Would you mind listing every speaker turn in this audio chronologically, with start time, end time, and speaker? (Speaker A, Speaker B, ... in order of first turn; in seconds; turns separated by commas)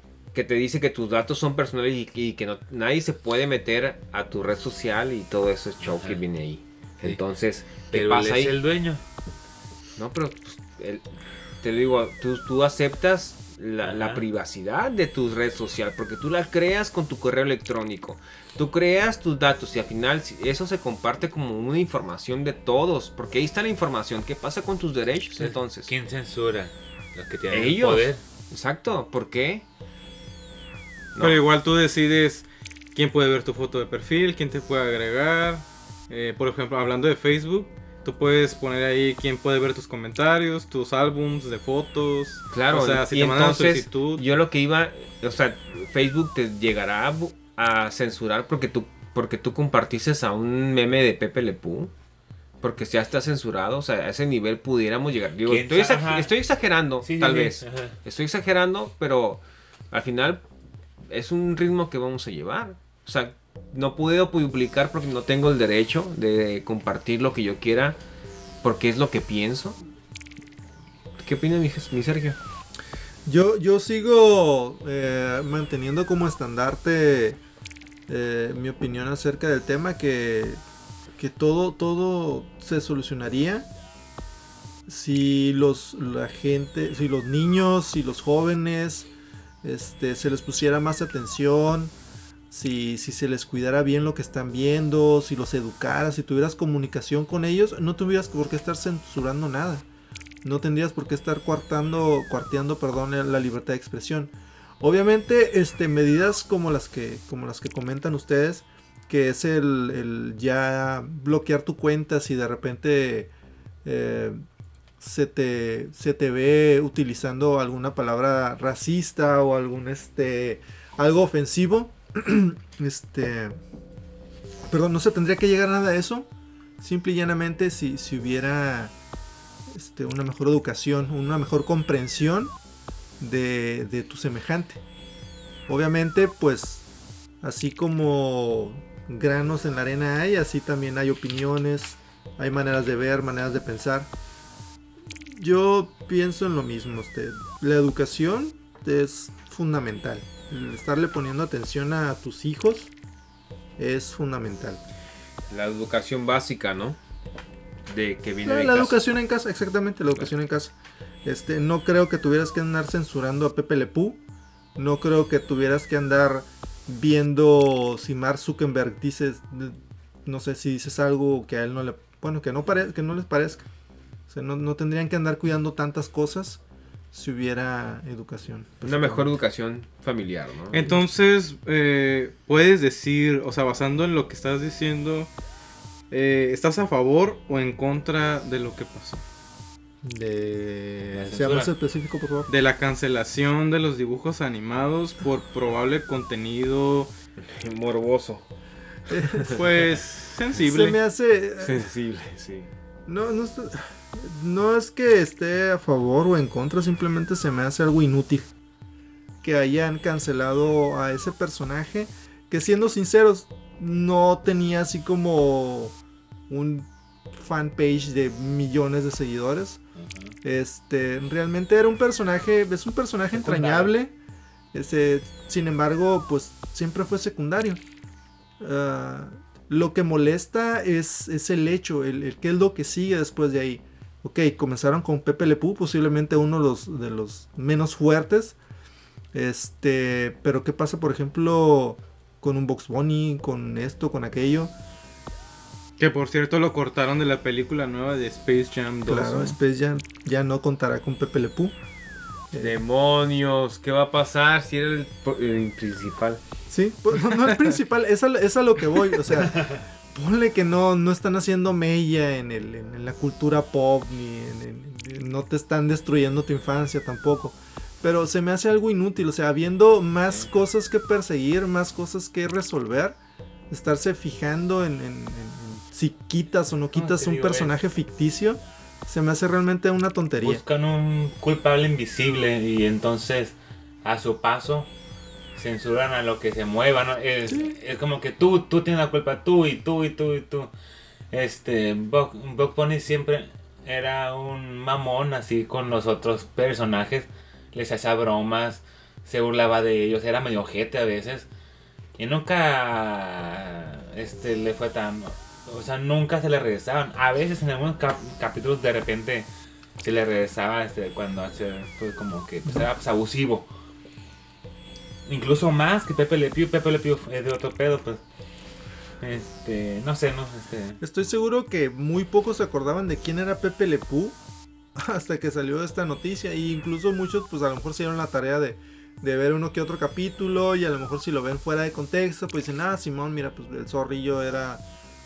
Speaker A: 0.3-8.6, Speaker B: 5.8-6.2, Speaker B: 7.9-9.0, Speaker A: 10.0-11.0, Speaker A: 11.6-25.9, Speaker B: 13.8-14.2, Speaker B: 25.4-28.2, Speaker A: 27.5-29.6, Speaker A: 31.1-31.4, Speaker C: 31.2-44.2, Speaker A: 42.5-51.9, Speaker A: 52.6-60.4, Speaker B: 55.4-56.3, Speaker B: 57.0-57.9, Speaker A: 61.1-68.0, Speaker A: 68.6-69.8, Speaker A: 71.2-72.4, Speaker D: 73.2-77.4, Speaker D: 78.1-80.6, Speaker D: 81.2-83.7, Speaker D: 84.9-89.1, Speaker D: 89.6-91.9, Speaker D: 92.5-99.9, Speaker D: 100.4-113.3, Speaker D: 113.8-114.4, Speaker D: 115.0-123.5, Speaker D: 124.7-126.3, Speaker D: 126.8-128.9, Speaker D: 129.7-132.5, Speaker D: 133.2-134.8, Speaker D: 135.7-136.8, Speaker D: 137.4-144.1, Speaker D: 145.2-152.9, Speaker D: 153.8-154.8, Speaker A: 155.5-157.0, Speaker A: 157.9-159.0, Speaker D: 158.4-160.7, Speaker D: 161.2-164.2, Speaker D: 164.8-173.7, Speaker D: 174.3-176.6, Speaker D: 177.1-179.3, Speaker A: 178.8-180.9, Speaker C: 180.7-185.3, Speaker C: 186.1-189.2, Speaker D: 190.0-192.5, Speaker B: 191.2-191.7, Speaker C: 192.5-197.1, Speaker A: 197.4-198.4, Speaker D: 199.1-199.6, Speaker C: 199.5-201.0, Speaker D: 200.5-201.8, Speaker A: 201.6-202.7, Speaker D: 203.1-208.5, Speaker D: 209.4-215.9, Speaker D: 216.5-219.8, Speaker B: 220.0-220.3, Speaker D: 220.4-224.1, Speaker B: 223.3-223.9, Speaker D: 224.7-227.8, Speaker D: 228.6-238.6, Speaker D: 239.3-244.7, Speaker C: 246.0-249.6, Speaker D: 249.1-251.8, Speaker D: 252.5-252.8, Speaker A: 252.6-256.4, Speaker D: 256.7-273.2, Speaker D: 273.7-280.6, Speaker B: 276.9-277.8, Speaker B: 280.4-284.9, Speaker B: 285.5-290.7, Speaker D: 287.5-287.8, Speaker B: 291.3-301.5, Speaker B: 302.2-309.5, Speaker B: 310.0-313.7, Speaker B: 315.3-318.2, Speaker B: 319.2-321.0, Speaker D: 321.0-324.4, Speaker D: 324.9-334.8